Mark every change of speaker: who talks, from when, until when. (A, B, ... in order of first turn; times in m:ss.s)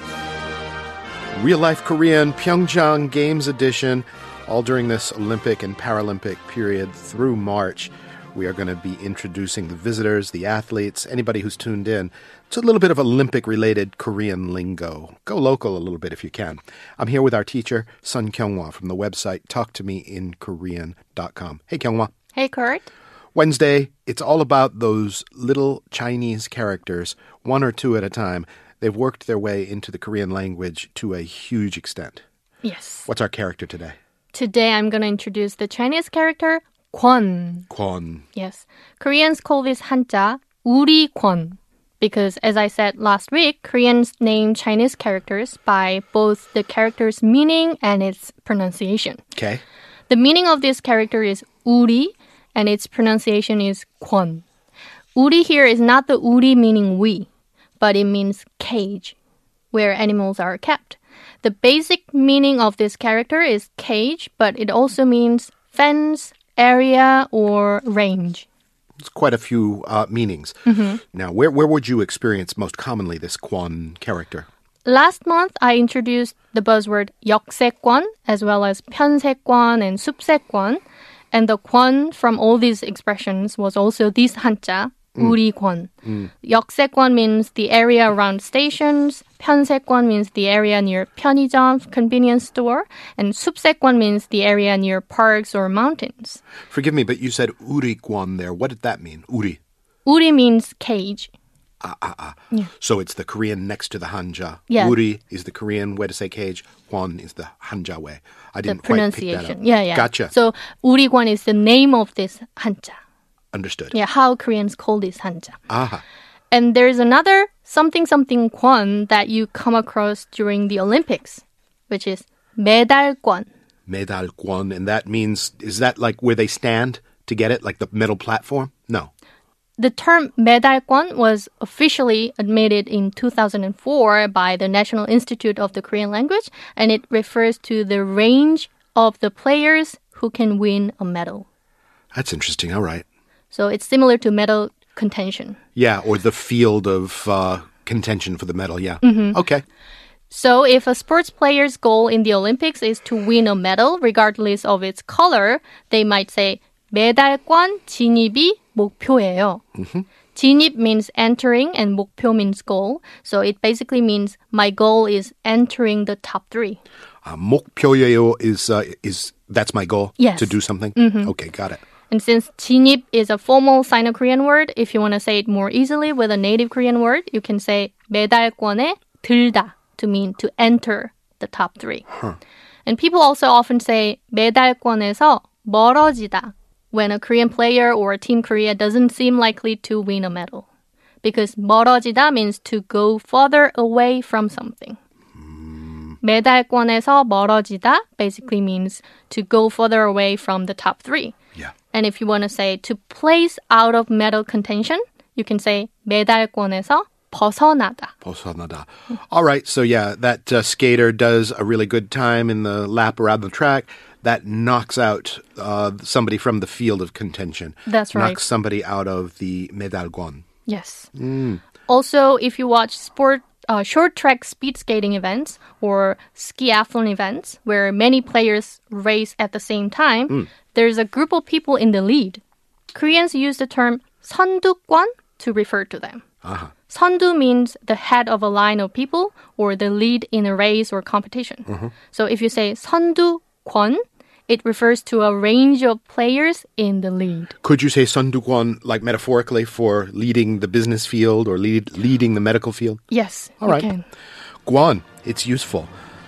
0:01.4-0:22.1 A
0:22.3-0:22.9 B
0:23.3-0:32.2 A
0:32.6-0:33.1 B
0:33.1-0:33.9 A
0:34.3-0:37.7 B
0:37.7-0:38.2 A
0:38.3-0:49.2 B
0:49.4-0:49.6 A
0:50.1-0:54.4 B
0:55.1-0:57.3 B
0:57.8-0:59.2 B
0:59.7-1:08.5 B
1:09.0-1:14.5 A
1:10.6-1:11.0 B
1:14.8-1:36.4 B
1:36.7-1:39.6 A
1:40.0-1:41.3 B
1:41.8-1:50.3 A
1:44.7-1:45.0 B
1:48.6-1:53.0 B
1:53.5-1:53.9 A
1:53.9-1:55.6 B
1:55.7-1:56.0 A
1:56.5-2:03.5 B
2:03.9-2:09.1 A
2:09.8-2:21.5 B
2:22.1-2:23.0 A
2:23.5-2:25.6 B
2:25.8-2:29.6 A
2:29.0-2:29.4 B
2:30.3-2:39.6 B
2:39.8-2:40.0 A
2:40.3-2:46.8 B
2:47.2-2:51.8 A
2:50.2-2:51.3 B
2:52.1-3:02.1 B
3:02.8-3:10.6 B
3:11.2-3:15.0 B
3:15.4-3:16.2 A
3:16.2-3:21.4 B
3:21.9-3:28.1 B
3:28.2-3:40.4 A
3:37.8-3:38.4 B
3:40.6-3:41.1 B
3:41.1-3:41.6 A
3:41.9-3:52.4 B
3:52.9-3:56.2 B
3:56.4-3:56.7 A
3:56.9-4:07.5 B
4:07.6-4:13.0 A
4:13.1-4:14.0 B
4:13.6-4:13.9 A
4:14.6-4:15.9 A